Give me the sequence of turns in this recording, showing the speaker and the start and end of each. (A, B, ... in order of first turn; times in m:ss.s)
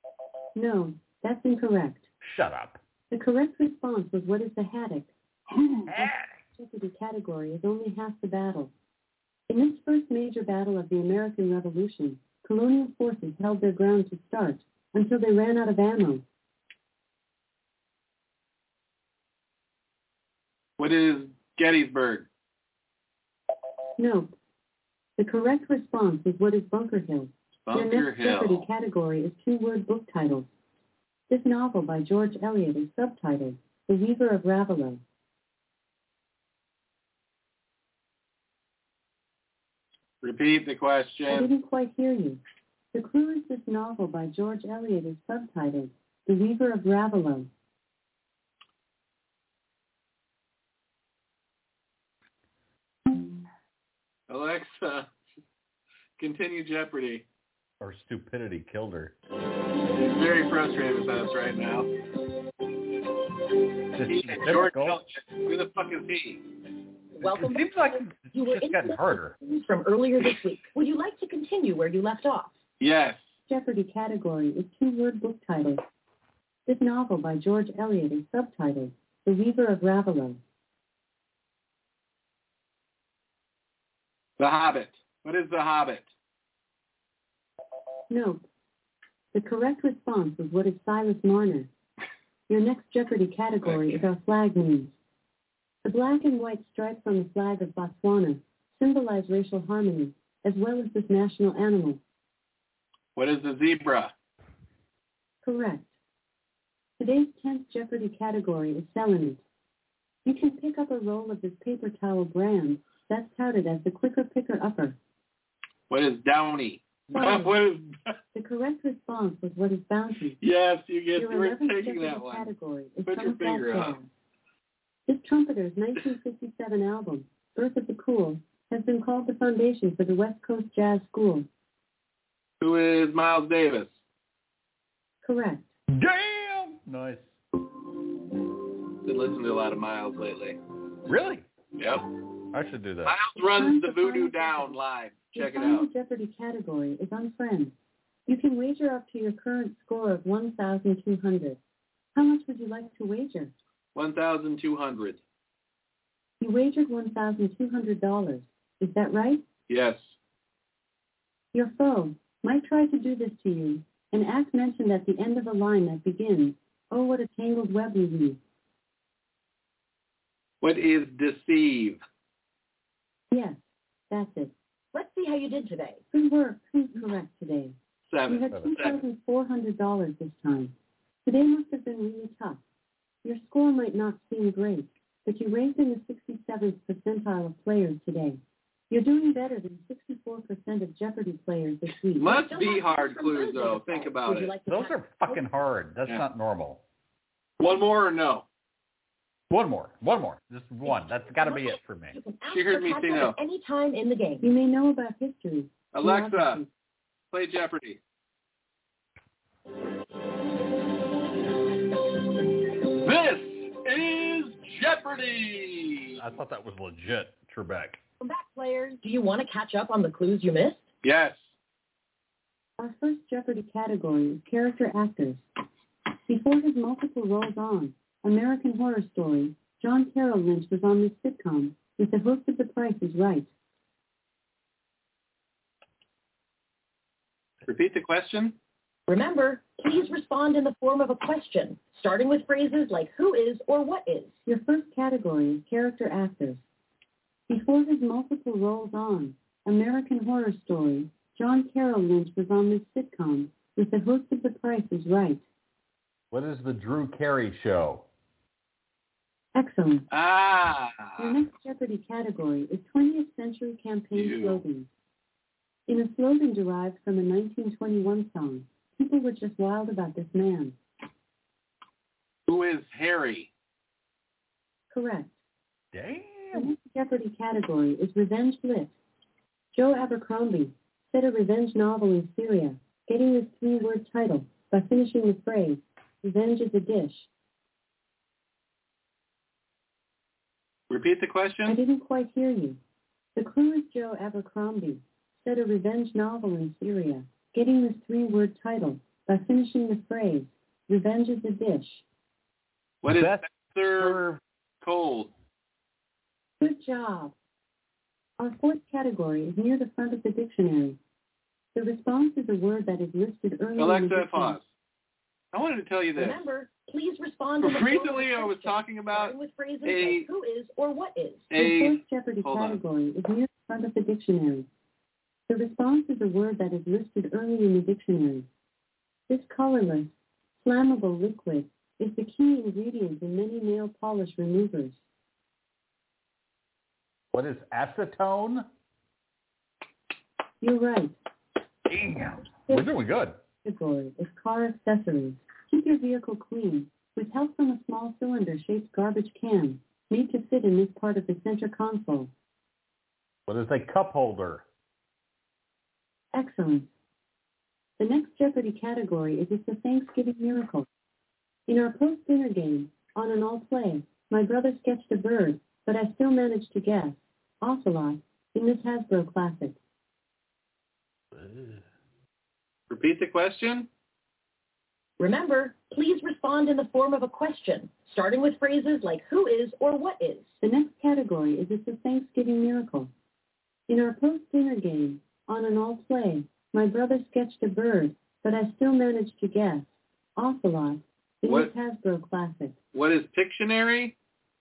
0:00.6-0:02.1 A
0:02.2-0:02.8 B
0:03.1-0:05.1 A
0:05.5-0:06.1 C
0:05.9-0:06.4 B
0:06.6-0:08.7 A
0:09.5-0:16.2 A
0:20.8-0:22.3 C
0:24.0-0:24.4 A
0:25.2-0:30.5 A
0:27.7-0:28.7 C
0:31.3-0:35.0 A
0:40.2-0:41.5 C
0:41.3-0:42.4 A
0:42.9-0:47.5 A
0:54.3-0:55.1 C
0:56.2-0:57.2 C
0:57.8-0:59.2 B
0:59.9-1:01.9 C
1:03.9-1:05.0 B
1:04.1-1:06.4 C
1:07.2-1:12.6 D
1:07.2-1:09.4 B
1:12.8-1:13.3 C
1:13.5-1:15.8 A
1:16.7-1:20.4 A
1:24.4-1:26.1 C
1:28.1-1:28.5 A
1:29.3-1:31.7 A
1:32.5-1:34.9 A
1:33.6-1:34.1 C
1:35.8-1:42.0 A
1:43.2-1:44.1 C
1:45.4-1:45.9 A
1:47.0-1:49.4 A
1:50.2-1:55.0 A
1:55.9-1:58.1 C
1:57.1-1:57.6 A
1:58.3-2:00.4 A
2:00.4-2:02.5 C
2:01.2-2:04.1 A
2:03.1-2:04.0 C
2:05.1-2:11.5 A
2:12.6-2:13.9 C
2:15.2-2:15.7 A
2:15.9-2:17.3 B
2:19.0-2:20.6 C
2:21.1-2:21.4 B
2:21.8-2:22.1 C
2:22.5-2:23.2 B
2:23.0-2:25.9 C
2:23.4-2:24.8 A
2:25.3-2:27.7 A
2:28.3-2:31.6 A
2:32.1-2:33.5 A
2:33.9-2:35.2 C
2:36.4-2:39.4 A
2:39.7-2:40.2 C
2:41.5-2:48.4 A
2:50.6-2:52.0 C
2:53.3-2:54.5 A
2:54.9-2:56.0 D
2:56.1-2:57.8 A
2:58.1-2:59.0 C
2:58.3-3:00.7 A
3:01.2-3:02.6 A
3:03.2-3:12.4 A
3:12.2-3:14.5 C
3:12.3-3:15.4 D
3:14.7-3:16.8 B
3:17.6-3:18.4 C
3:19.5-3:22.2 B
3:20.8-3:24.5 D
3:22.5-3:23.4 C
3:24.4-3:26.7 A
3:25.9-3:26.6 C
3:27.3-3:28.0 C
3:33.0-3:36.2 C
3:36.2-3:38.0 B
3:38.2-3:40.9 D
3:41.0-3:41.5 C
3:42.8-3:45.5 A
3:46.3-3:53.5 A
3:57.6-3:58.6 C
3:59.1-4:04.4 D
4:04.4-4:06.6 A
4:07.5-4:15.4 A
4:16.3-4:18.0 B
4:19.6-4:20.1 A
4:20.1-4:21.4 C
4:21.2-4:24.9 A
4:24.1-4:24.6 C
4:25.9-4:30.8 A
4:32.5-4:33.5 C
4:34.9-4:35.4 A
4:35.9-4:36.7 B
4:36.5-4:38.9 A
4:39.7-4:47.3 A
4:50.9-4:51.8 C
4:51.6-4:52.8 A
4:53.4-5:02.0 A
5:03.0-5:04.2 C
5:03.1-5:04.4 B
5:04.8-5:05.3 C
5:06.6-5:07.3 A
5:08.4-5:11.0 A
5:11.7-5:14.6 A
5:13.8-5:14.6 C
5:15.5-5:16.4 C
5:16.2-5:21.5 D
5:17.6-5:20.3 C
5:21.5-5:22.8 C
5:21.5-5:24.7 A
5:25.5-5:28.5 A
5:29.3-5:35.0 A
5:37.3-5:38.7 B
5:40.6-5:41.2 A
5:41.9-5:43.4 B
5:43.6-5:52.3 A
5:53.5-5:54.6 B
5:56.3-5:56.9 A
5:58.0-6:00.9 A
6:01.7-6:09.8 A
6:11.3-6:11.8 B
6:12.9-6:13.9 C
6:15.2-6:20.6 D
6:20.6-6:23.1 A
6:23.9-6:32.8 A
6:31.4-6:31.7 C
6:32.9-6:34.1 C